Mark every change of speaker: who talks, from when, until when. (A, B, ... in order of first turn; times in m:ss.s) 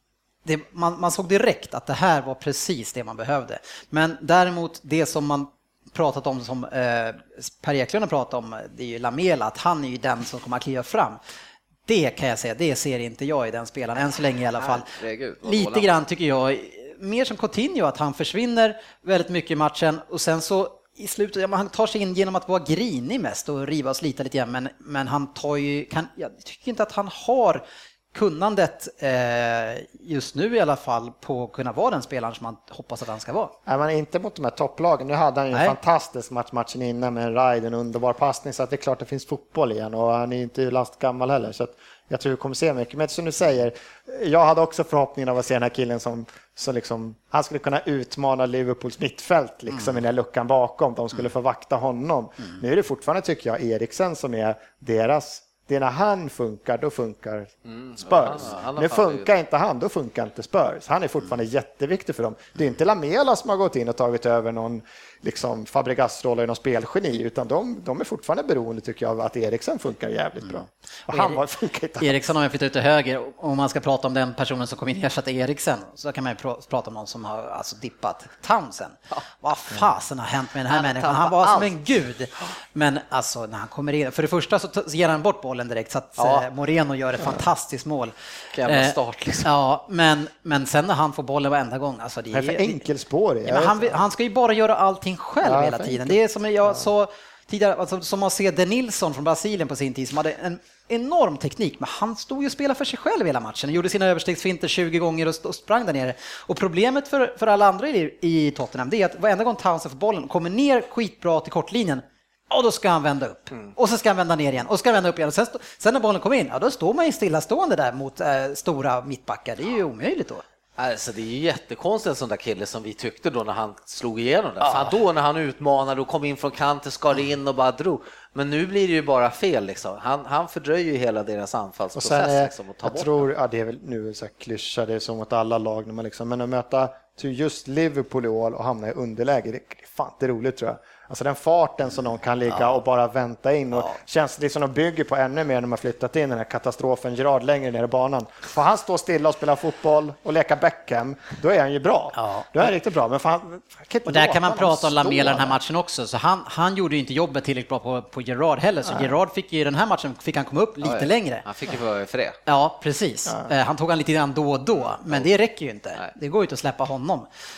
0:00.4-0:11.2 A
0:11.9-0:14.9 A
0:14.6-0:15.9 B
0:15.4-0:33.5 A
0:33.6-0:57.5 C
0:57.7-0:59.3 B
0:58.0-1:12.3 C
1:11.1-1:11.4 A
1:12.0-1:32.8 A
1:20.7-1:21.8 B
1:26.2-1:26.5 B
1:28.5-1:29.5 B
1:32.3-1:34.0 C
1:33.4-2:00.4 A
1:35.4-1:36.2 C
2:00.8-2:13.1 B
2:11.9-2:35.6 C
2:32.1-2:32.5 A
2:34.0-2:41.4 A
2:38.8-2:39.1 C
2:40.8-2:42.4 B
2:42.5-2:47.3 A
2:45.0-2:45.3 B